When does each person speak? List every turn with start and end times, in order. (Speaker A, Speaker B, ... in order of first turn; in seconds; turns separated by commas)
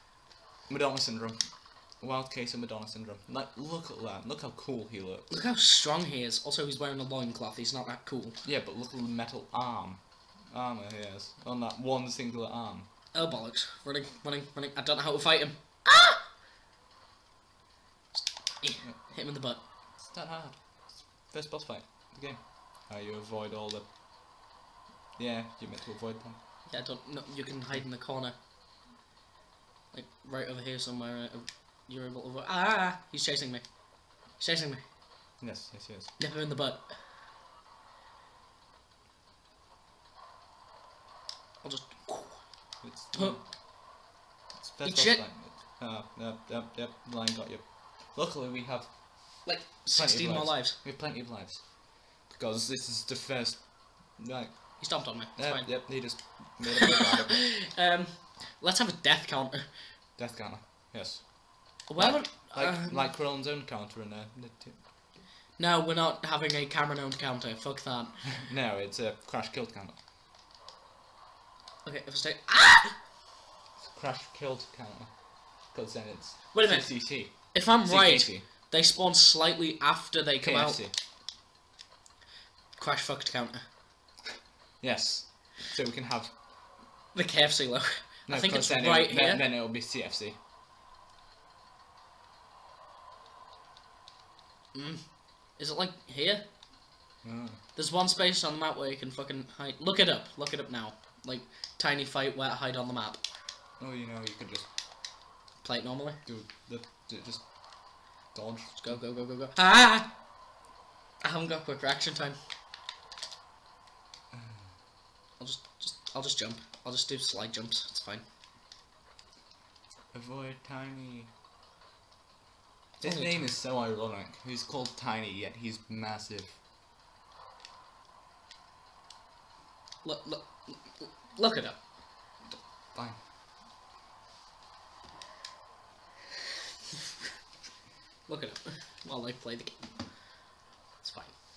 Speaker A: 0.7-5.3, Speaker B: 5.3-8.3, Speaker A: 8.4-12.8, Speaker B: 13.1-16.2, Speaker B: 18.1-19.6, Speaker A: 20.0-23.9, Speaker A: 25.2-26.4, Speaker B: 26.6-28.3, Speaker B: 29.9-33.6, Speaker B: 34.3-34.8, Speaker A: 35.4-36.1, Speaker B: 36.2-36.9, Speaker B: 41.6-42.4, Speaker A: 42.8-43.5, Speaker B: 43.1-43.4, Speaker A: 44.6-57.5, Speaker B: 44.8-45.2, Speaker B: 49.4-50.8, Speaker B: 54.8-56.3, Speaker B: 56.9-59.6, Speaker A: 60.2-65.0, Speaker B: 61.9-63.1, Speaker B: 65.6-68.3, Speaker A: 68.4-70.0, Speaker B: 71.8-72.9, Speaker A: 73.8-78.4, Speaker B: 76.5-80.8, Speaker A: 80.4-80.9, Speaker B: 82.8-83.6, Speaker A: 84.8-86.3, Speaker B: 87.1-89.4, Speaker A: 88.3-90.3, Speaker B: 94.7-96.4, Speaker A: 97.2-97.6, Speaker B: 97.7-103.2, Speaker A: 103.8-104.7, Speaker B: 105.6-106.2, Speaker A: 106.2-109.0, Speaker B: 108.8-110.1, Speaker B: 111.2-112.4, Speaker A: 114.3-114.7, Speaker B: 115.4-118.2, Speaker A: 120.1-121.3, Speaker B: 123.0-123.5, Speaker A: 123.0-126.6, Speaker B: 130.0-131.8, Speaker A: 132.5-133.2, Speaker B: 138.3-139.9, Speaker B: 141.0-141.3